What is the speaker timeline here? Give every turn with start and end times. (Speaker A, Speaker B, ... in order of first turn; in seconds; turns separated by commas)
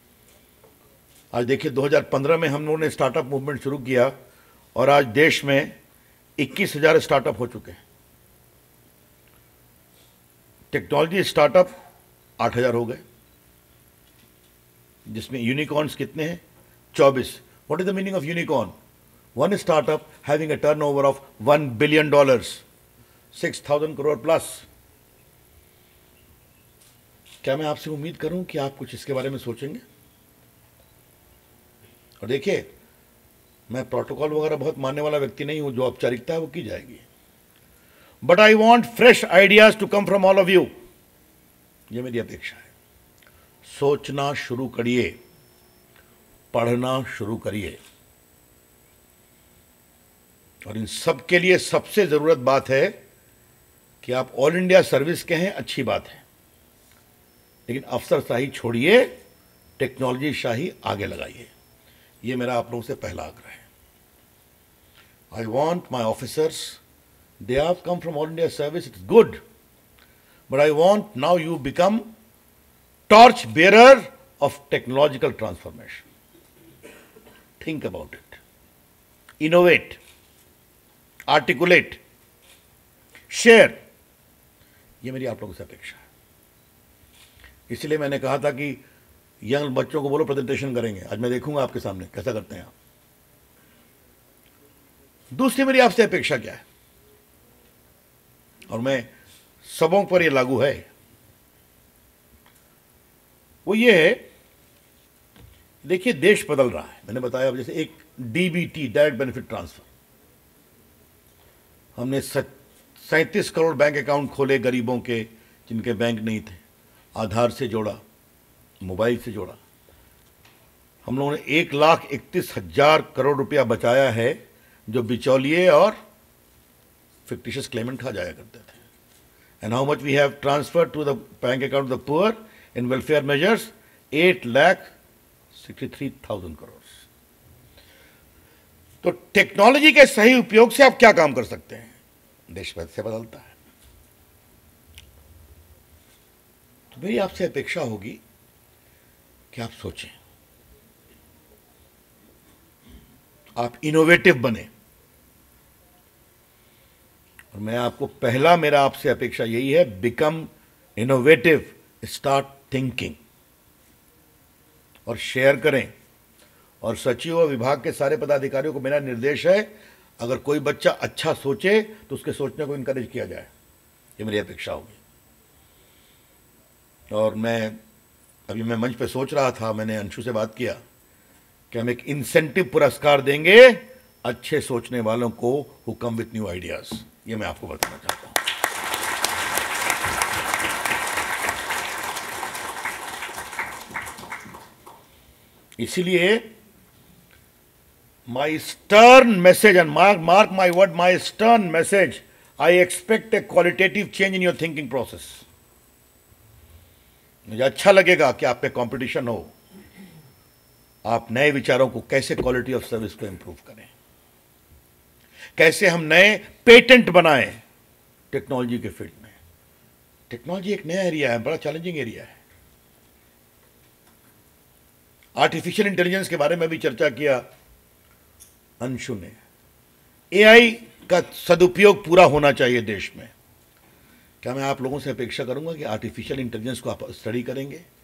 Speaker A: 1.3-4.1, Speaker A: 4.7-5.8, Speaker A: 6.4-7.8, Speaker A: 10.7-11.7, Speaker A: 12.4-13.0, Speaker A: 15.1-16.4, Speaker A: 16.9-18.7, Speaker A: 19.3-22.6, Speaker A: 23.3-24.6, Speaker A: 27.4-29.8, Speaker A: 32.2-32.7, Speaker A: 33.7-37.0, Speaker A: 38.2-40.7, Speaker A: 41.9-42.7, Speaker A: 43.6-45.2, Speaker A: 46.5-47.8, Speaker A: 50.6-52.9, Speaker A: 54.0-56.2, Speaker A: 57.7-59.1, Speaker A: 59.8-61.5, Speaker A: 62.2-63.6, Speaker A: 65.3-66.8, Speaker A: 67.4-69.4, Speaker A: 70.5-72.0, Speaker A: 73.1-76.0, Speaker A: 77.6-78.4, Speaker A: 79.4-80.0, Speaker A: 81.3-82.0, Speaker A: 83.3-83.8, Speaker A: 85.0-86.0, Speaker A: 87.7-88.8, Speaker A: 89.4-92.7, Speaker A: 95.3-96.6, Speaker A: 98.7-99.1, Speaker A: 99.6-100.9, Speaker A: 103.6-104.2, Speaker A: 105.8-109.9, Speaker A: 112.0-116.6, Speaker A: 117.1-118.0, Speaker A: 118.8-119.6, Speaker A: 121.0-126.0, Speaker A: 127.3-128.8, Speaker A: 129.6-134.9, Speaker A: 135.5-136.9, Speaker A: 139.0-141.9, Speaker A: 142.5-143.5, Speaker A: 146.9-148.2, Speaker A: 149.5-150.1, Speaker A: 153.6-154.7, Speaker A: 157.5-163.2, Speaker A: 165.1-165.9, Speaker A: 166.8-173.5, Speaker A: 174.2-175.0, Speaker A: 177.1-177.8, Speaker A: 178.5-180.8, Speaker A: 181.7-188.4, Speaker A: 195.8-196.5, Speaker A: 198.3-205.4, Speaker A: 207.5-209.5, Speaker A: 211.0-213.9, Speaker A: 215.6-217.6, Speaker A: 218.3-219.3, Speaker A: 220.3-222.4, Speaker A: 225.3-227.4, Speaker A: 228.8-229.4, Speaker A: 230.3-233.3, Speaker A: 234.4-237.8